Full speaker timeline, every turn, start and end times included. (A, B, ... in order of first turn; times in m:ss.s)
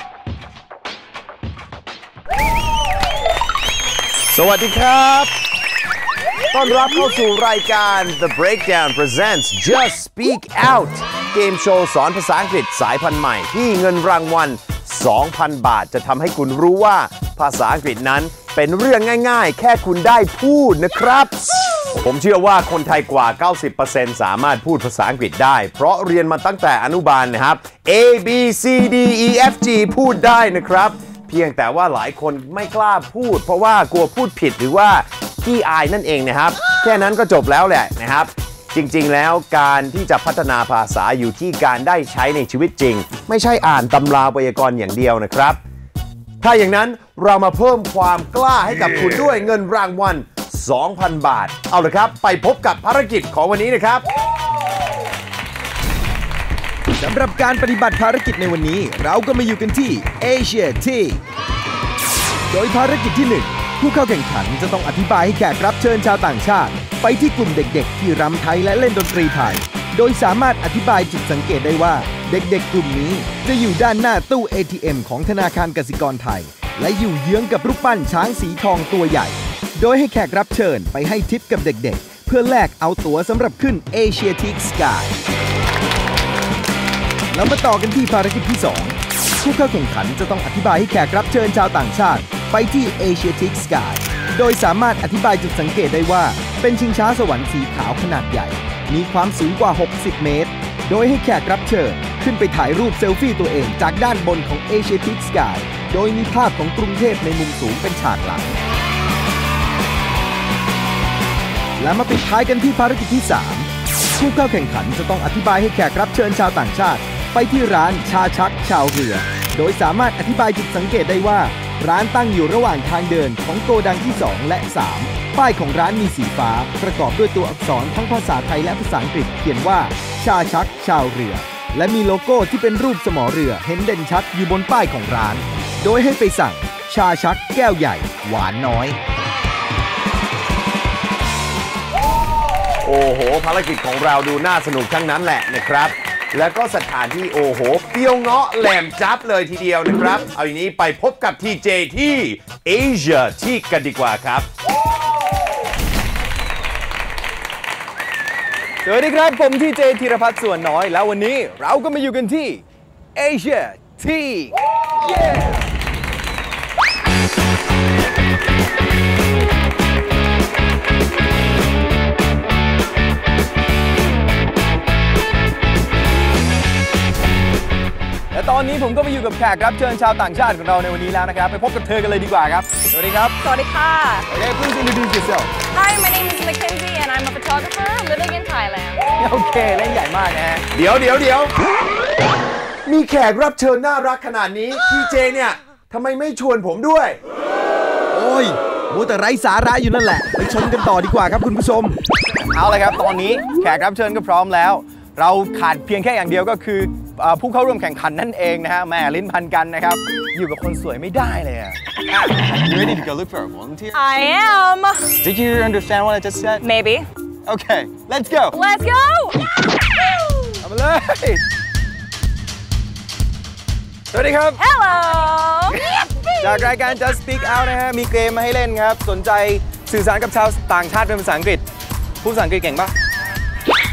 0:04.3-0:05.3 A
0:06.5-0:45.6 A
0:46.4-0:54.0 A
0:49.0-0:49.2 B
0:57.0-1:01.2 B
1:02.5-1:25.1 B
1:27.3-1:48.6 B
1:51.8-2:19.0 B
2:22.8-2:34.5 A
2:38.8-2:42.6 B
2:43.2-2:45.6 B
2:58.3-3:03.4 B
3:03.4-3:04.2 C
3:04.3-3:05.5 B
3:05.7-3:09.0 C
3:09.2-3:10.6 B
3:10.7-3:11.5 A
3:12.8-3:17.2 A
3:18.1-3:22.0 B
3:22.5-3:33.9 B
3:33.9-3:35.1 C
3:35.2-3:36.6 B
3:36.6-3:37.1 C
3:37.4-3:38.5 B
3:38.5-3:39.4 C
3:40.6-3:41.4 B
3:44.1-3:44.6 B
3:44.6-3:45.8 C
3:46.4-3:51.6 B
3:52.2-3:52.9 B